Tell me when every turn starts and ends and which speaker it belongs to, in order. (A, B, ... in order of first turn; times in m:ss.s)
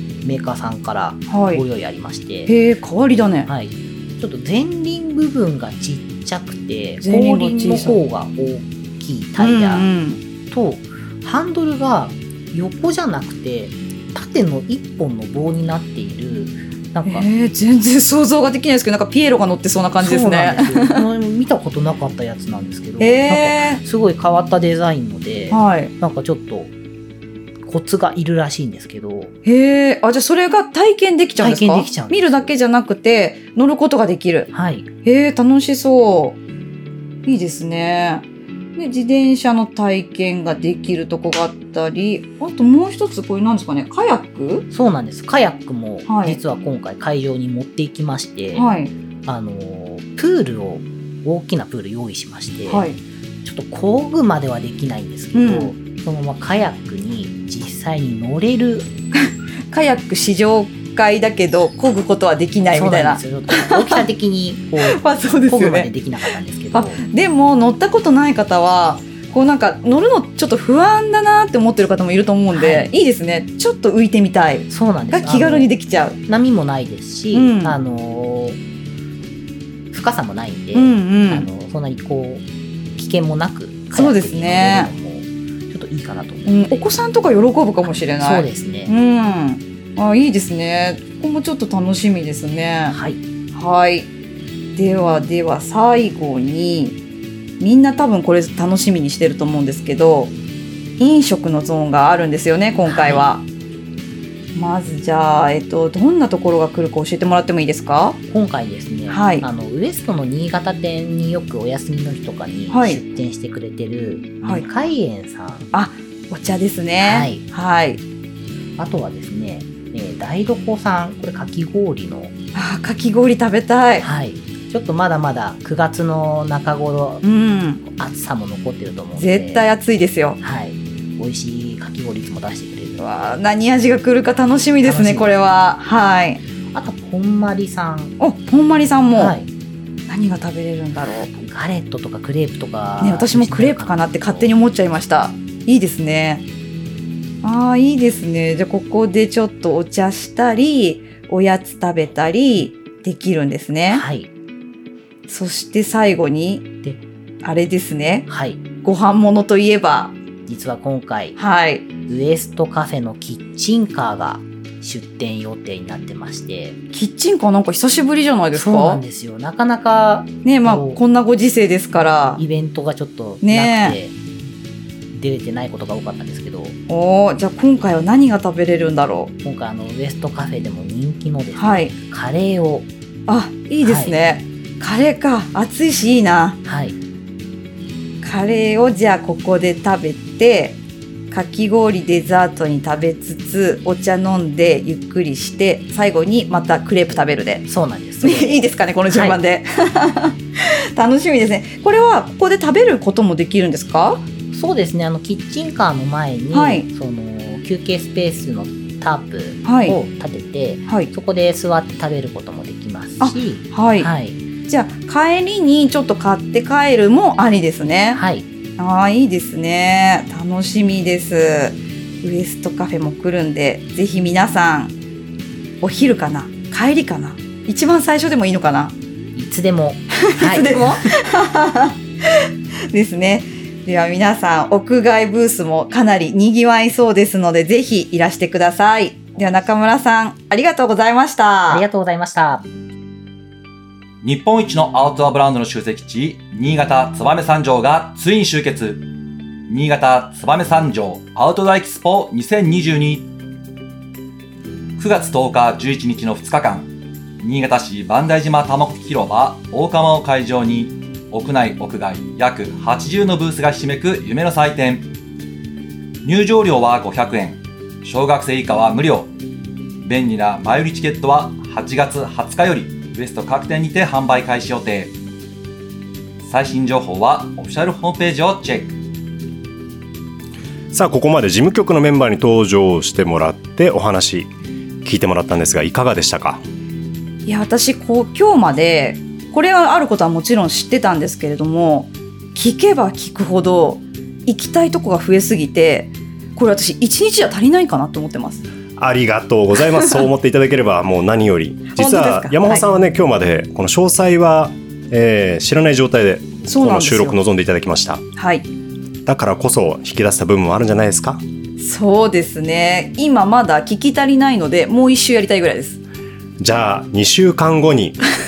0:00.2-0:02.5 A
0:01.3-0:01.6 B
0:02.5-0:03.5 B
0:03.4-0:09.9 A
0:07.0-0:08.0 B
0:09.4-0:10.2 B
0:10.5-0:17.3 A
0:17.0-0:21.1 B
0:20.0-0:26.7 A
0:23.0-0:23.8 B
0:25.5-0:25.9 B
0:27.6-0:29.3 A
0:29.4-0:34.5 B
0:31.4-0:32.5 A
0:34.5-0:34.9 A
0:35.0-0:36.4 B
0:37.2-0:38.2 B
0:38.8-0:44.6 B
0:44.7-0:48.7 A
0:46.1-0:46.4 B
0:48.5-0:48.9 B
0:49.2-0:52.9 A
0:52.7-0:53.0 B
0:53.4-0:58.9 A
0:55.3-0:55.7 B
0:59.7-1:04.0 B
1:02.7-1:07.0 A
1:04.8-1:05.9 B
1:06.7-1:16.2 B
1:12.5-1:12.9 A
1:14.7-1:15.7 A
1:16.2-1:18.6 A
1:17.3-1:17.8 B
1:19.9-1:22.4 A
1:20.7-1:21.5 B
1:23.0-1:26.8 A
1:23.9-1:24.9 B
1:26.4-1:33.0 B
1:27.8-1:28.9 A
1:32.9-1:33.2 A
1:33.5-1:34.1 B
1:34.7-1:37.0 B
1:37.6-1:40.3 B
1:41.0-1:43.4 B
1:42.8-1:43.2 A
1:44.5-1:48.2 B
1:48.3-1:55.7 A
1:49.1-1:49.4 B
1:52.7-1:53.0 B
1:55.7-1:58.0 B
1:57.0-1:57.4 A
1:58.8-2:02.3 A
2:02.5-2:04.0 B
2:04.0-2:07.2 A
2:07.2-2:07.8 B
2:07.9-2:09.6 A
2:09.1-2:10.4 B
2:10.4-2:13.4 A
2:13.0-2:16.4 B
2:14.8-2:15.4 A
2:16.7-2:18.1 A
2:18.2-2:19.4 B
2:19.1-2:19.5 A
2:20.1-2:21.3 B
2:21.3-2:24.5 A
2:23.0-2:26.4 B
2:27.4-2:34.0 B
2:33.9-2:34.3 A
2:35.3-2:36.7 B
2:37.4-2:38.2 B
2:38.3-2:38.6 A
2:38.8-2:40.2 B
2:40.4-2:41.4 A
2:41.4-2:41.9 B
2:42.0-2:46.8 A
2:46.9-2:49.0 B
2:48.5-2:51.0 A
2:50.4-2:52.4 B
2:52.4-2:54.2 A
2:53.4-2:54.0 B
2:55.1-2:56.8 A
2:56.9-2:59.3 B
2:59.4-3:02.9 A
3:01.6-3:01.9 B
3:03.3-3:06.6 B
3:03.8-3:04.2 A
3:06.6-3:07.0 A
3:08.2-3:10.8 B
3:11.3-3:17.6 B
3:17.1-3:19.4 A
3:18.2-3:24.2 B
3:24.5-3:34.4 A
3:26.5-3:26.9 B
3:29.6-3:30.0 B
3:33.2-3:34.1 B
3:34.7-3:38.2 B
3:38.1-3:38.4 A
3:38.8-3:44.9 B
3:45.8-3:48.9 B
3:49.3-3:51.0 A
3:50.2-3:52.0 B
3:52.9-4:01.8 B
4:01.7-4:02.7 A
4:04.2-4:09.0 C
4:09.7-4:13.3 C
4:15.0-4:16.9 C
4:17.4-4:25.1 C
4:26.2-4:29.3 C
4:30.0-4:35.1 C
4:36.4-4:39.0 C
4:40.9-4:44.5 D
4:45.0-4:46.6 D
4:47.4-4:58.6 B
4:59.0-5:08.2 D
5:01.9-5:02.8 B
5:06.6-5:07.4 B
5:08.4-5:08.6 B
5:09.2-5:11.4 D
5:11.8-5:16.0 B
5:16.6-5:18.2 D